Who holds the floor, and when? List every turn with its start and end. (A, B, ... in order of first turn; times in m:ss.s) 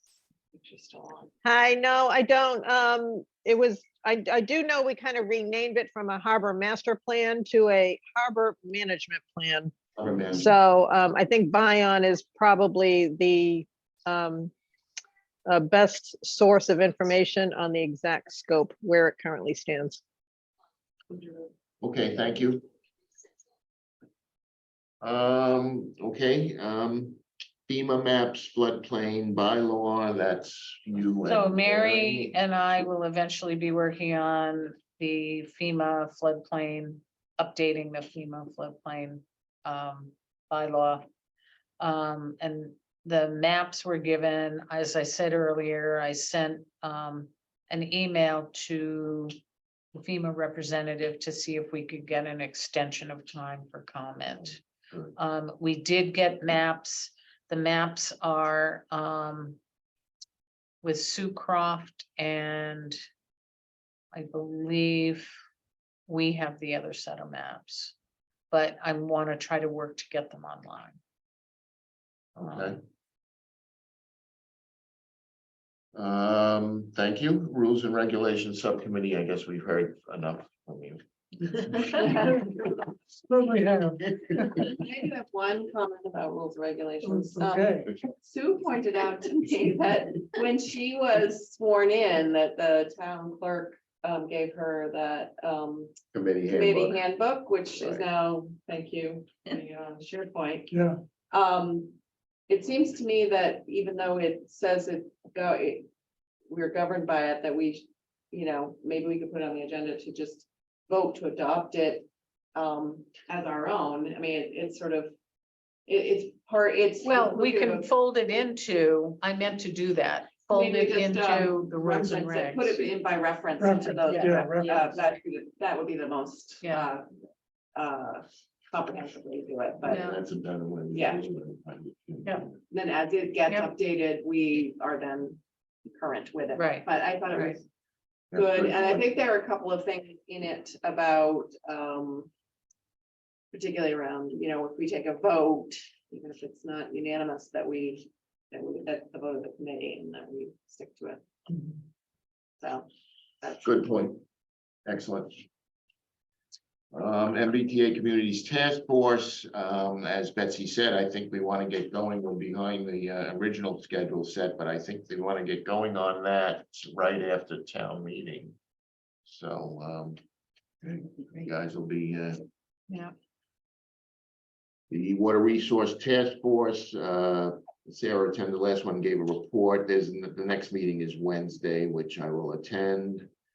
0:00.5-0:01.3 A
0:01.4-0:09.7 B
0:10.0-0:10.5 C
0:10.3-0:14.5 B
0:15.4-0:20.0 B
0:21.8-0:22.6 C
0:25.0-0:32.9 C
0:31.2-0:41.0 D
0:41.8-0:49.3 D
0:49.9-0:54.6 D
0:54.9-0:55.2 C
0:55.2-0:59.6 D
1:00.8-1:03.0 D
1:04.1-1:05.3 D
1:06.1-1:07.9 D
1:08.5-1:11.0 D
1:12.4-1:12.8 C
1:15.9-1:22.0 C
1:22.1-1:22.6 E
1:23.2-1:24.7 E
1:24.5-1:35.9 A
1:27.0-1:27.9 E
1:36.1-1:37.0 C
1:36.5-1:40.7 A
1:37.7-1:38.0 C
1:40.7-1:41.0 E
1:41.3-1:42.0 A
1:42.5-1:45.9 A
1:46.5-1:55.1 A
1:55.9-1:57.9 A
1:57.0-2:02.8 D
2:00.5-2:07.0 A
2:03.6-2:04.9 E
2:04.0-2:04.4 D
2:06.6-2:06.9 D
2:07.7-2:10.0 A
2:09.8-2:12.5 C
2:09.9-2:10.2 D
2:10.9-2:11.2 A
2:12.7-2:17.6 A
2:16.5-2:17.6 D
2:18.3-2:19.0 C
2:18.3-2:22.3 A
2:23.5-2:31.2 A
2:32.6-2:32.8 A
2:33.6-2:34.2 C
2:34.8-2:35.5 C
2:36.9-2:48.6 C
2:49.2-2:50.2 C
2:51.2-2:52.4 C
2:54.9-3:03.3 C